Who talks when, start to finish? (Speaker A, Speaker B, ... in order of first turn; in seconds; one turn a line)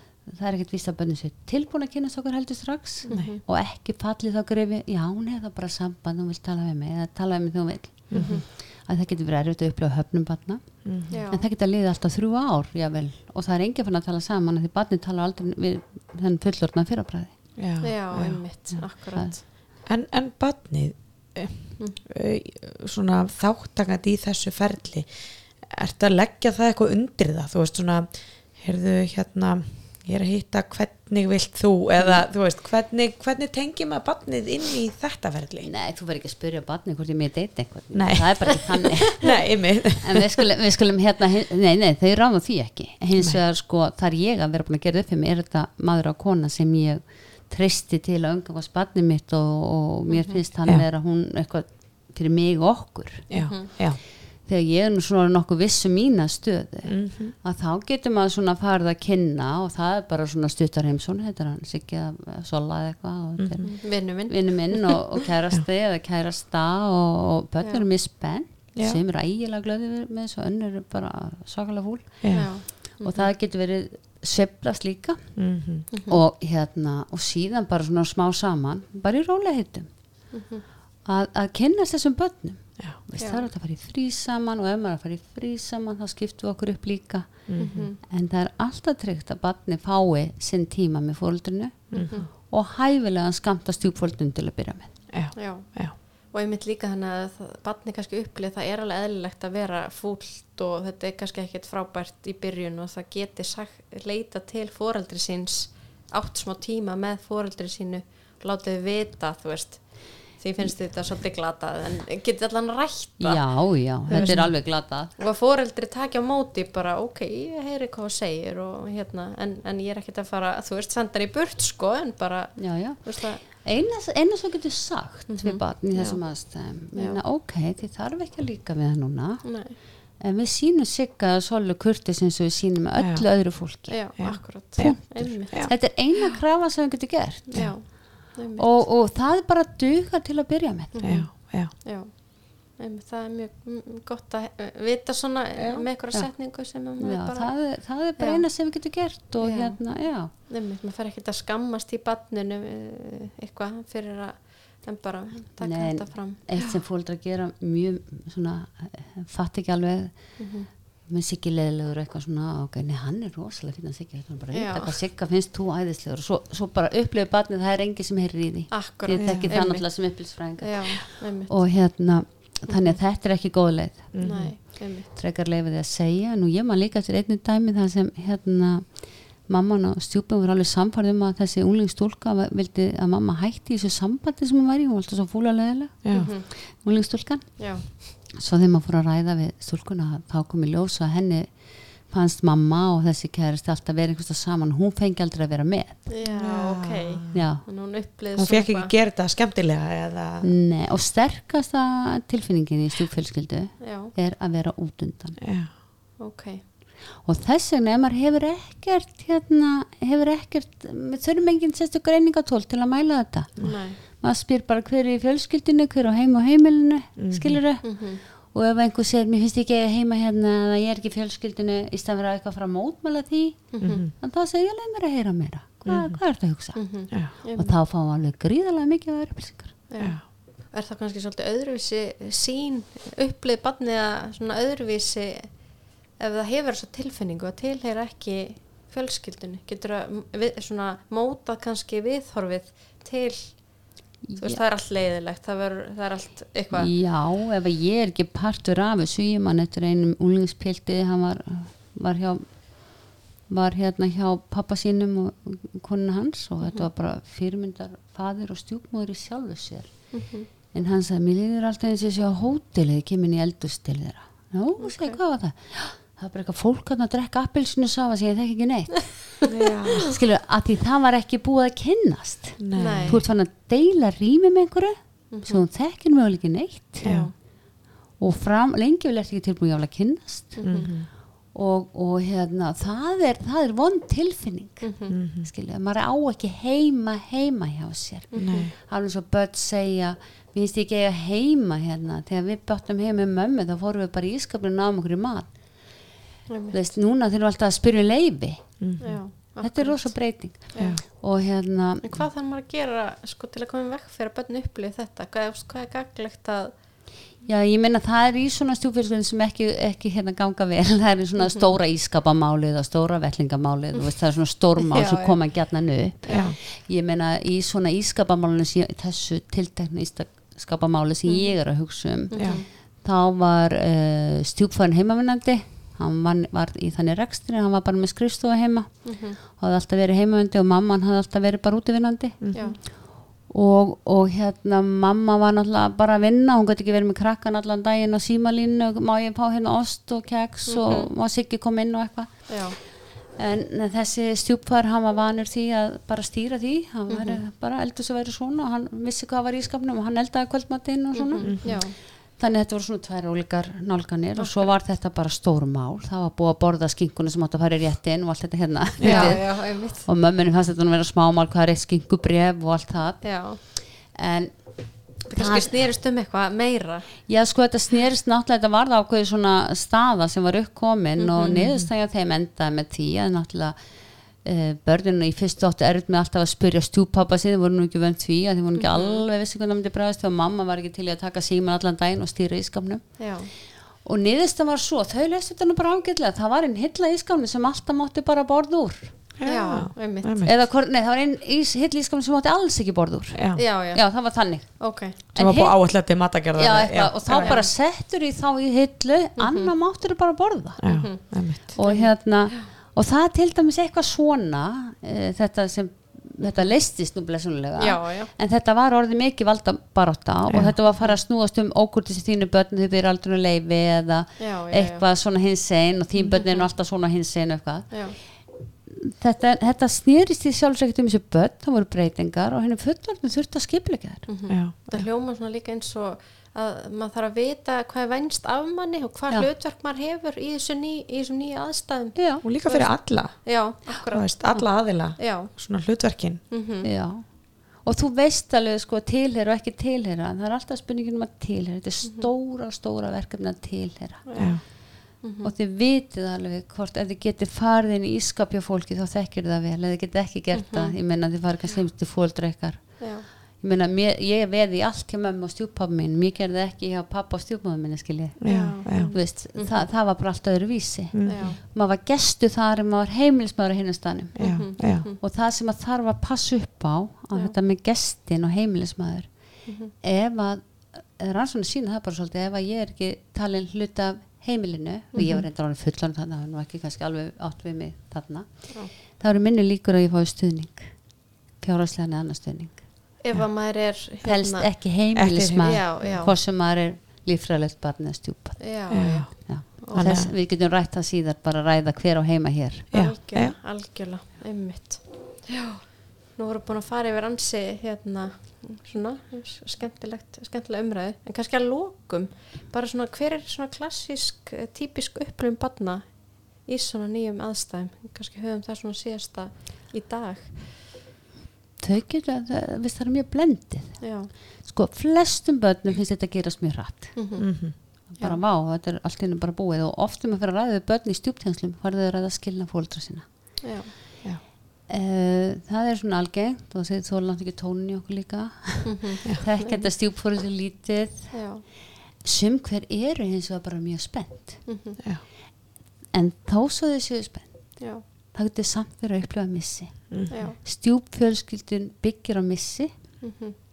Speaker A: 0.2-17.4
Speaker B: 3.1-3.3
Speaker C: 3.1-3.4
Speaker B: 8.1-8.4
Speaker C: 8.1-8.4
Speaker B: 10.8-11.1
Speaker C: 11.1-11.4
Speaker B: 17.6-18.4
Speaker C: 17.8-19.4
Speaker A: 18.7-19.4
Speaker B: 19.8-35.7
Speaker A: 35.6-53.8
Speaker B: 37.9-40.3
Speaker C: 50.1-50.4
Speaker C: 53.3-53.7
Speaker B: 53.3-54.0
Speaker A: 54.4-75.5
Speaker B: 56.9-57.4
Speaker B: 63.4-63.7
Speaker C: 63.6-65.2
Speaker C: 67.6-67.9
Speaker B: 72.2-72.5
Speaker C: 72.3-73.3
Speaker B: 75.4-75.9
Speaker C: 75.9-76.2
Speaker A: 76.1-79.9
Speaker C: 80.3-80.6
Speaker A: 81.0-95.0
Speaker C: 83.2-83.5
Speaker B: 87.5-87.9
Speaker C: 87.6-88.0
Speaker B: 91.9-92.3
Speaker C: 91.9-92.3
Speaker B: 95.1-96.0
Speaker C: 95.3-123.4
Speaker A: 113.2-115.1
Speaker B: 114.1-114.5
Speaker A: 122.6-140.9
Speaker C: 125.3-127.2
Speaker C: 129.4-129.8
Speaker B: 133.0-135.7
Speaker C: 133.9-136.0
Speaker C: 137.5-138.9
Speaker C: 140.9-156.8
Speaker B: 141.0-141.7
Speaker B: 145.6-145.8
Speaker A: 146.1-150.3
Speaker A: 155.6-160.5
Speaker C: 160.4-160.7
Speaker A: 161.1-196.1
Speaker C: 164.5-164.9
Speaker C: 168.7-171.6
Speaker B: 169.2-169.5
Speaker C: 172.7-173.0
Speaker B: 174.1-174.5
Speaker C: 174.2-175.1
Speaker B: 186.0-186.3
Speaker C: 186.1-186.5
Speaker C: 187.6-187.8
Speaker C: 196.1-198.9
Speaker B: 196.2-197.4
Speaker A: 197.3-197.7
Speaker B: 198.4-200.5
Speaker A: 200.4-205.4
Speaker C: 203.8-204.1
Speaker B: 205.4-205.7
Speaker C: 206.2-206.6
Speaker A: 207.2-229.8
Speaker C: 213.6-214.0
Speaker B: 217.2-217.6
Speaker C: 217.8-218.2
Speaker C: 223.7-224.1
Speaker B: 223.8-224.1
Speaker B: 225.8-226.2
Speaker C: 226.8-227.7
Speaker C: 229.9-246.9
Speaker A: 244.2-244.6
Speaker A: 246.7-277.3
Speaker C: 260.1-260.5
Speaker C: 264.8-265.2
Speaker B: 269.5-270.1
Speaker B: 272.6-273.2
Speaker C: 272.8-273.2
Speaker C: 275.3-275.6
Speaker B: 277.0-277.3
Speaker C: 277.0-277.3
Speaker A: 278.2-296.1
Speaker C: 280.6-280.9
Speaker B: 280.6-281.1
Speaker C: 284.8-285.1
Speaker B: 285.1-285.5
Speaker C: 288.3-288.7
Speaker B: 288.4-288.7
Speaker C: 296.5-296.8
Speaker A: 296.7-299.0
Speaker B: 298.8-299.2
Speaker C: 299.0-301.1
Speaker A: 299.6-302.3
Speaker B: 300.8-301.0
Speaker C: 302.0-306.8
Speaker A: 307.4-365.8
Speaker C: 314.8-316.6
Speaker B: 316.3-316.6
Speaker C: 321.2-321.7
Speaker C: 322.3-322.7
Speaker C: 329.1-329.4
Speaker B: 332.4-332.7
Speaker C: 332.5-332.8
Speaker C: 340.7-341.1
Speaker C: 342.5-342.8
Speaker C: 347.1-347.4
Speaker C: 351.1-352.0
Speaker B: 351.4-351.8
Speaker C: 354.4-354.7
Speaker B: 359.0-359.4
Speaker C: 359.0-360.1
Speaker C: 363.2-363.6
Speaker C: 365.3-367.1
Speaker A: 367.3-373.8
Speaker C: 371.2-371.6
Speaker B: 371.4-371.9
Speaker A: 374.4-389.2
Speaker C: 378.8-379.2
Speaker C: 383.2-383.5
Speaker B: 389.4-390.5
Speaker C: 389.4-390.3
Speaker A: 390.4-395.8
Speaker B: 393.3-393.6
Speaker C: 393.6-395.2
Speaker B: 395.3-397.6
Speaker A: 396.5-424.3
Speaker C: 397.3-397.7
Speaker C: 399.4-399.7
Speaker B: 400.8-401.8
Speaker C: 400.9-402.7
Speaker C: 407.8-408.3
Speaker B: 410.5-410.8
Speaker C: 414.4-415.1
Speaker C: 416.3-416.6
Speaker C: 417.9-418.2
Speaker C: 424.3-435.5
Speaker B: 424.5-425.1
Speaker A: 432.2-432.4
Speaker B: 432.4-436.5
Speaker C: 436.5-436.9
Speaker A: 436.8-444.8
Speaker C: 442.0-442.3
Speaker C: 444.3-445.5
Speaker B: 444.4-444.6
Speaker A: 445.4-481.1
Speaker C: 450.5-450.9
Speaker C: 453.0-453.3
Speaker B: 458.4-459.1
Speaker C: 458.5-459.9
Speaker B: 461.1-461.6
Speaker C: 461.3-461.6
Speaker C: 464.4-465.2
Speaker B: 464.4-465.1
Speaker C: 469.6-469.9
Speaker C: 475.1-475.4
Speaker A: 481.6-482.9
Speaker C: 483.2-484.7
Speaker A: 484.2-492.9
Speaker B: 485.1-486.2
Speaker C: 485.6-486.4
Speaker C: 488.6-490.3
Speaker B: 488.9-490.3
Speaker C: 492.9-510.6
Speaker B: 492.9-493.6
Speaker A: 511.8-517.4
Speaker C: 514.0-514.3
Speaker C: 517.1-518.4
Speaker B: 517.4-517.8
Speaker A: 518.1-523.6
Speaker C: 523.6-523.9
Speaker A: 524.9-531.7
Speaker C: 528.8-529.9
Speaker C: 531.3-531.6
Speaker A: 532.2-534.7
Speaker C: 534.7-535.0
Speaker A: 536.1-543.2
Speaker C: 540.3-540.6
Speaker C: 543.2-543.5